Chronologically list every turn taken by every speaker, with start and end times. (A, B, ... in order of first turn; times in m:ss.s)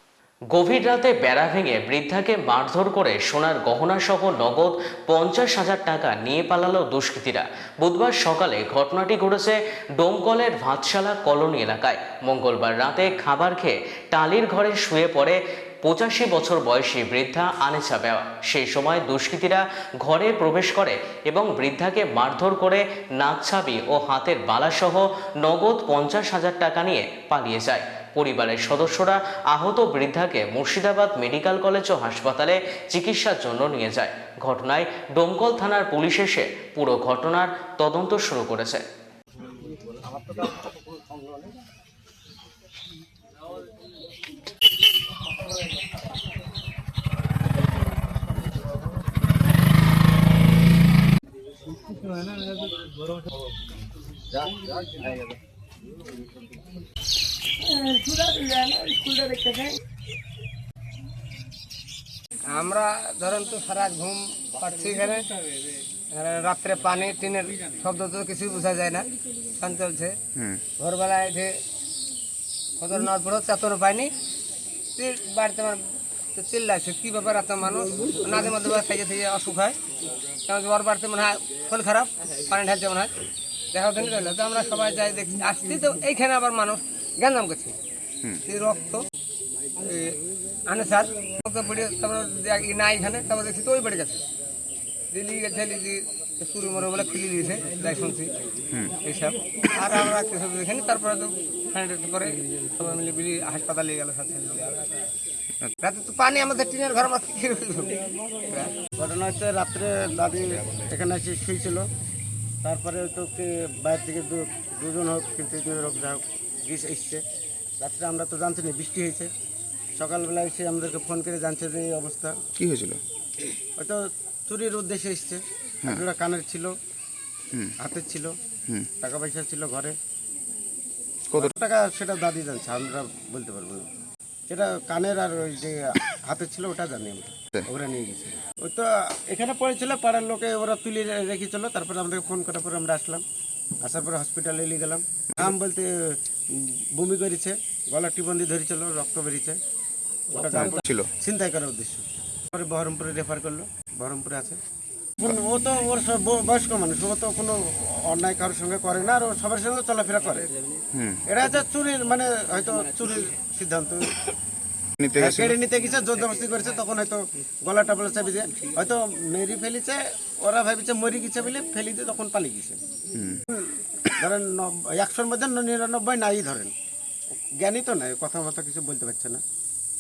0:00.5-0:38.8 A
0:57.6-0:59.8 B
1:02.5-1:05.3 B
1:06.0-1:10.2 B
1:10.4-1:10.6 C
1:10.8-1:11.6 B
1:12.8-1:14.1 B
1:15.0-1:19.8 B
1:20.5-1:23.1 B
1:23.7-1:27.8 B
1:28.4-1:29.1 B
1:29.8-1:34.2 B
1:35.1-1:38.3 B
1:39.0-1:45.0 B
1:45.8-1:48.8 B
1:49.0-1:51.9 D
1:52.6-1:57.2 D
1:57.8-1:59.3 D
2:00.0-2:02.4 D
2:02.6-2:03.0 C
2:03.8-2:06.7 D
2:07.8-2:08.3 D
2:09.0-2:10.0 D
2:11.3-2:13.9 D
2:14.5-2:23.2 D
2:23.8-2:29.6 D
2:30.3-2:34.6 D
2:30.5-2:31.1 C
2:35.2-2:40.6 D
2:40.9-2:41.2 C
2:41.3-2:44.2 D
2:45.0-2:45.5 C
2:45.2-2:52.8 D
2:53.1-2:53.4 C
2:53.5-2:56.7 D
2:57.6-2:59.4 D